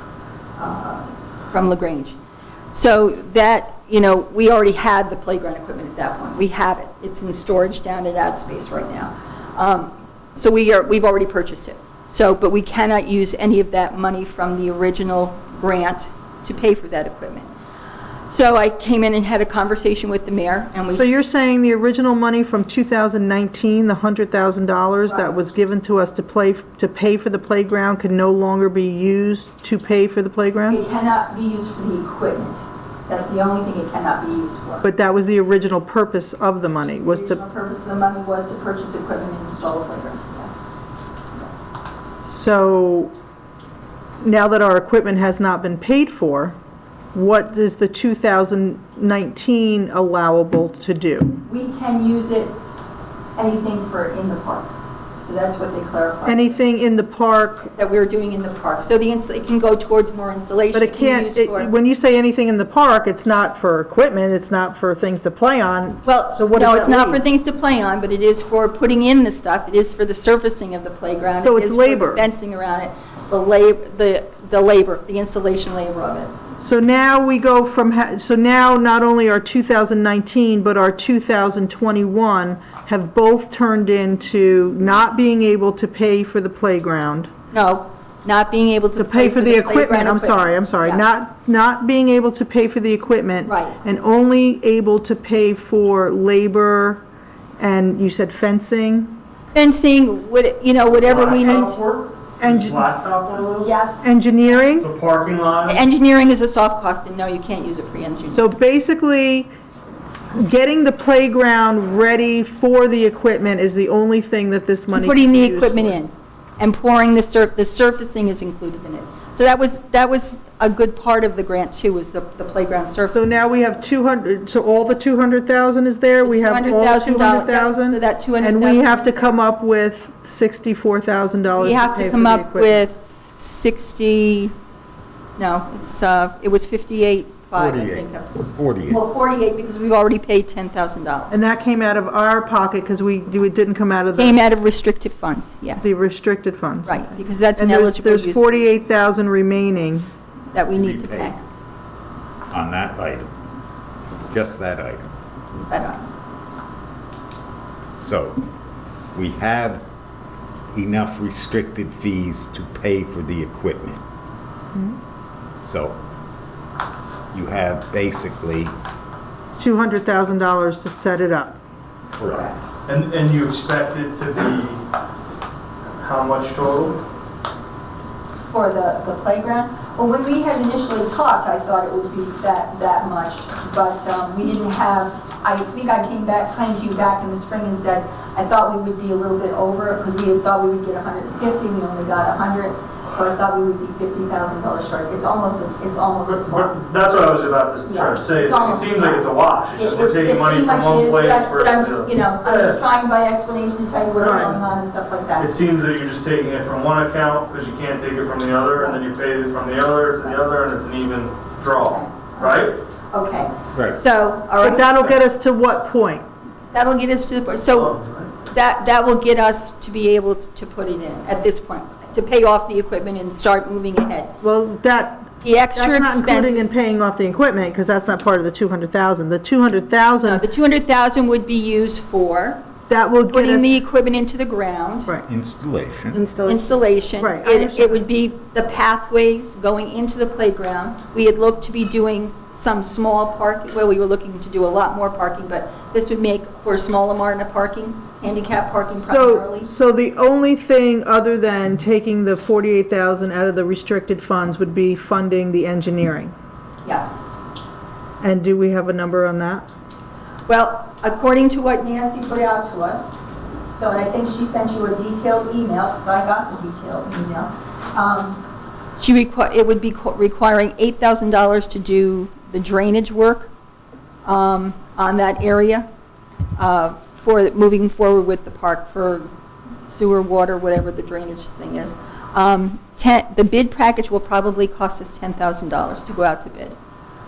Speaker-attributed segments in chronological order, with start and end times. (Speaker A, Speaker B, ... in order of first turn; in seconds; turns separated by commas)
Speaker A: 0.6-2.1, Speaker A: 2.7-17.5, Speaker A: 18.3-21.2, Speaker B: 20.9-30.8, Speaker A: 30.7-34.8, Speaker B: 34.8-37.4, Speaker A: 37.0-40.5, Speaker B: 42.2-43.1, Speaker B: 44.2-46.5, Speaker B: 47.1-51.4, Speaker A: 51.5-52.5, Speaker A: 53.4-56.5, Speaker B: 56.2-57.7, Speaker A: 57.8-61.7, Speaker B: 60.7-67.2, Speaker A: 66.0-76.3, Speaker B: 71.3-72.3, Speaker B: 76.6-87.3, Speaker A: 87.5-91.0, Speaker B: 89.0-97.0, Speaker A: 93.4-93.8, Speaker B: 97.6-99.1, Speaker A: 99.5-101.8, Speaker C: 101.0-103.7, Speaker B: 102.4-102.9, Speaker A: 103.6-104.0, Speaker B: 104.0-104.9, Speaker C: 104.8-105.8, Speaker A: 105.7-108.5, Speaker B: 108.3-109.5, Speaker B: 110.3-116.0, Speaker A: 114.9-123.2, Speaker B: 123.1-132.8, Speaker A: 126.2-129.3, Speaker A: 131.6-134.5, Speaker A: 135.4-141.4, Speaker D: 137.6-139.0, Speaker B: 141.3-144.4, Speaker A: 144.2-145.9, Speaker B: 145.8-150.1, Speaker A: 146.8-148.7, Speaker A: 150.5-151.4, Speaker D: 150.7-151.3, Speaker D: 152.5-153.3, Speaker D: 154.3-155.1, Speaker A: 155.7-156.1, Speaker D: 158.0-158.4, Speaker D: 159.1-159.8, Speaker D: 160.7-164.0, Speaker D: 165.6-166.0, Speaker D: 167.3-168.7, Speaker B: 169.6-171.6, Speaker D: 172.2-172.5, Speaker A: 172.2-172.6, Speaker C: 172.9-174.8, Speaker C: 176.0-177.0, Speaker A: 178.5-196.8, Speaker C: 196.2-202.8, Speaker A: 197.8-205.5, Speaker B: 204.2-204.6, Speaker C: 205.4-212.8, Speaker A: 211.7-215.0, Speaker B: 214.6-216.2, Speaker A: 216.7-224.3, Speaker C: 217.7-218.3, Speaker B: 224.4-230.4, Speaker A: 225.4-226.6, Speaker A: 230.2-232.6, Speaker B: 232.9-233.8, Speaker A: 233.3-235.1, Speaker D: 235.2-236.2, Speaker B: 236.1-238.0, Speaker A: 236.4-249.7, Speaker B: 248.9-256.3, Speaker A: 256.8-257.1, Speaker B: 258.2-259.7, Speaker A: 260.5-263.2, Speaker A: 263.7-268.4, Speaker A: 269.0-273.5, Speaker A: 274.2-275.9, Speaker A: 276.6-279.3, Speaker A: 279.9-286.8